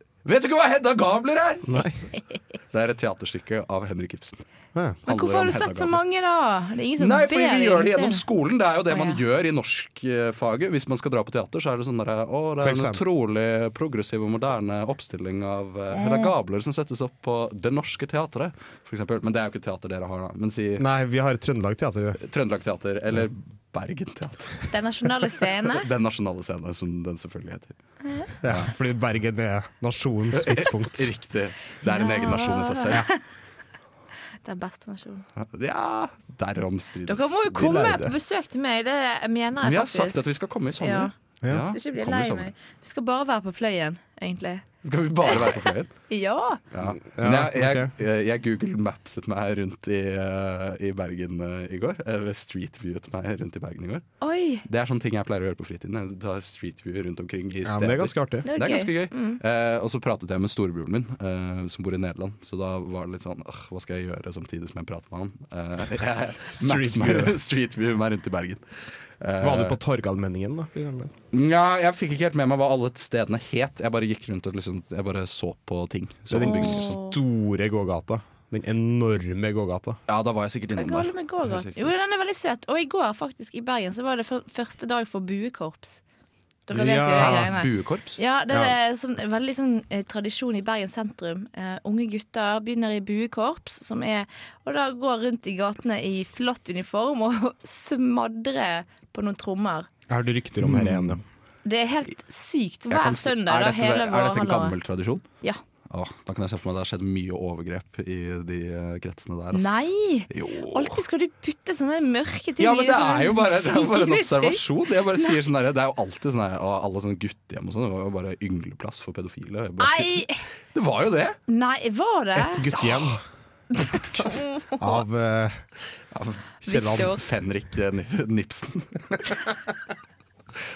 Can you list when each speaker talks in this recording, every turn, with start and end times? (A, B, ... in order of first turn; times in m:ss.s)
0:00.2-0:01.9 A
0:01.7-0:02.0 B
0:02.7-0:04.4 A
0:05.1-0:06.0 A
0:05.1-0:08.2 C
0:07.0-0:20.9 A
0:08.9-0:09.2 C
0:12.6-0:13.0 B
0:15.9-0:16.3 C
0:20.8-0:22.2 B
0:22.2-0:24.7 A
0:24.7-0:25.9 C
0:25.7-0:27.8 A
0:28.0-0:28.3 C
0:28.4-0:31.1 B
0:28.4-0:28.7 A
0:30.3-0:33.0 A
0:31.8-0:33.2 C
0:34.4-0:35.2 C
0:35.4-0:37.9 A
0:37.1-0:40.2 C
0:37.5-0:38.1 B
0:39.6-0:42.5 A
0:40.8-0:41.1 C
0:41.6-0:44.6 C
0:44.8-0:45.9 A
0:45.2-0:46.6 C
0:46.7-0:54.0 A
0:46.8-0:47.9 B
0:54.2-0:54.6 C
0:54.6-1:09.8 A
0:57.6-0:58.5 B
0:58.4-0:59.4 C
1:06.5-1:07.4 B
1:09.4-1:11.1 B
1:11.3-1:17.0 A
1:16.3-1:20.0 B
1:16.4-1:17.2 C
1:20.1-1:21.9 A
1:20.7-1:26.0 C
1:26.7-1:39.9 C
1:26.7-1:27.5 B
1:27.2-1:28.2 A
1:28.5-1:28.8 B
1:40.1-1:41.2 B
1:40.6-1:41.2 A
1:41.6-1:44.8 C
1:42.9-1:45.2 A
1:45.9-1:51.0 A
1:49.5-1:54.6 C
1:52.6-2:01.4 A
1:59.8-2:00.4 C
2:01.5-2:02.7 C
2:02.4-2:03.2 B
2:02.7-2:03.2 A
2:03.7-2:05.0 C
2:04.8-2:05.6 B
2:06.1-2:09.5 A
2:06.7-2:07.2 C
2:06.7-2:07.1 B